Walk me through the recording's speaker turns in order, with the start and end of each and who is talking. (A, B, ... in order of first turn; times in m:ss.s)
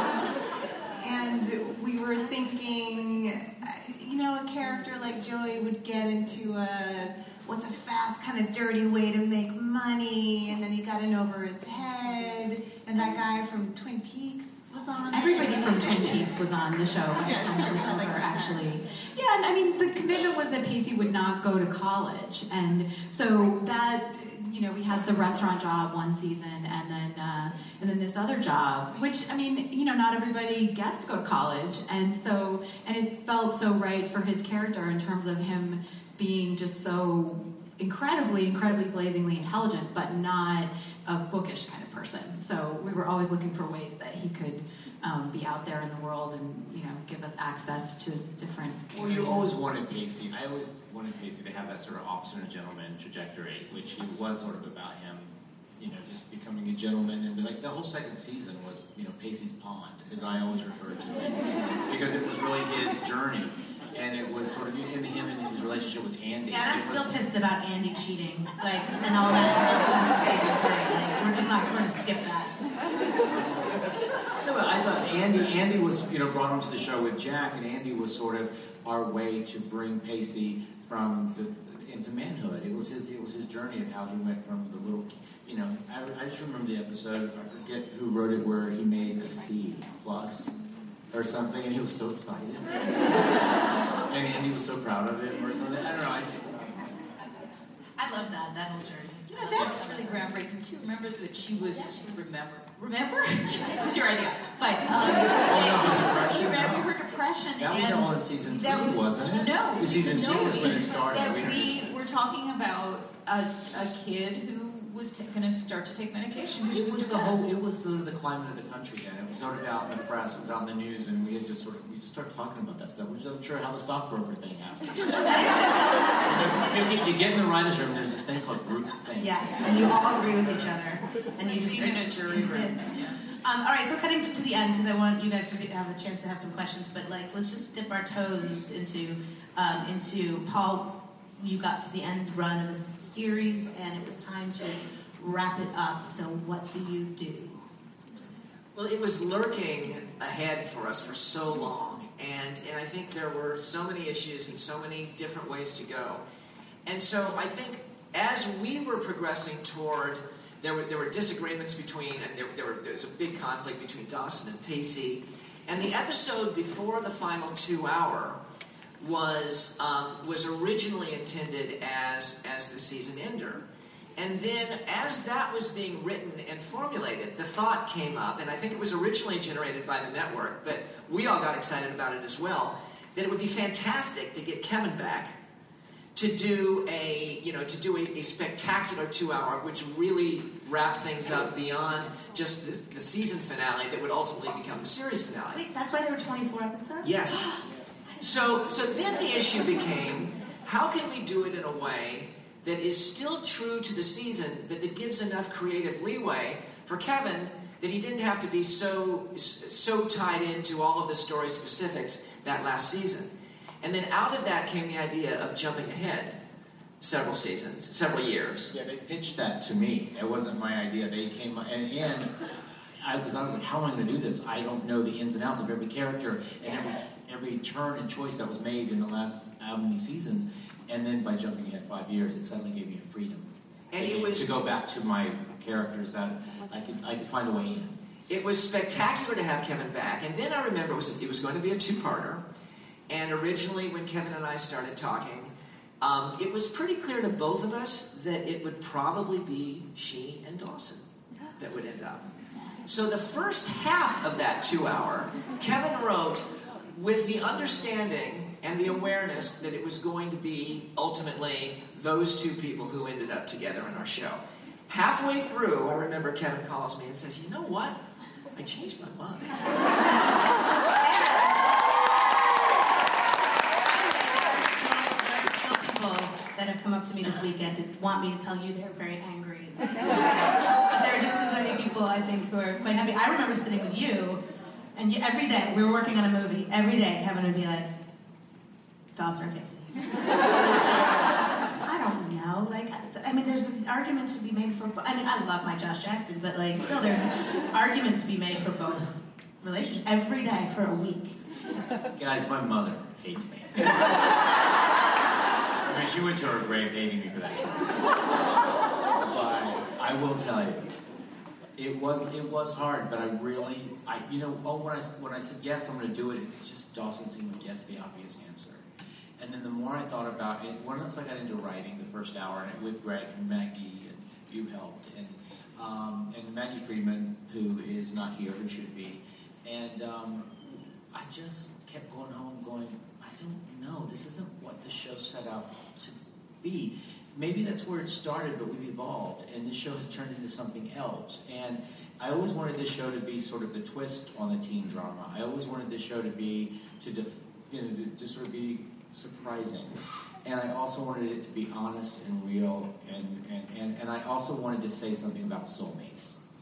0:01.0-0:16.4 A
0:15.1-0:49.5 B
0:17.1-0:19.0 A
0:48.9-1:07.1 C
1:06.5-1:12.5 D
1:14.4-1:30.5 C
1:31.1-1:33.4 C
1:34.1-1:36.9 C
1:38.0-1:39.2 D
1:39.3-1:57.6 E
1:39.5-1:39.8 C
1:45.4-1:46.9 C
1:47.6-1:51.9 C
1:56.7-2:05.3 C
2:05.2-2:07.2 D
2:06.2-2:09.4 C
2:09.2-2:27.6 D
2:11.6-2:13.1 E
2:11.9-2:12.6 A
2:28.7-2:36.2 F
2:36.8-2:48.4 F
2:49.0-2:53.6 F
2:54.2-3:05.4 F
3:06.1-3:15.6 F
3:15.5-3:17.2 D
3:17.0-3:17.6 F
3:18.2-3:33.3 F
3:33.8-3:36.4 F
3:37.0-3:38.7 F
3:38.7-3:58.0 C
3:53.9-3:54.5 F
3:58.3-4:02.4 F
4:03.1-4:11.0 F
4:11.6-4:12.2 F
4:12.8-4:28.0 F
4:28.5-4:29.8 F
4:31.0-4:31.9 D
4:33.8-4:44.4 D
4:45.0-4:47.9 D
4:49.1-4:51.2 D
4:51.8-5:01.4 D
5:02.1-5:04.2 C
5:05.8-5:08.4 C
5:09.1-5:10.9 C
5:11.8-5:18.8 C
5:19.4-5:56.4 C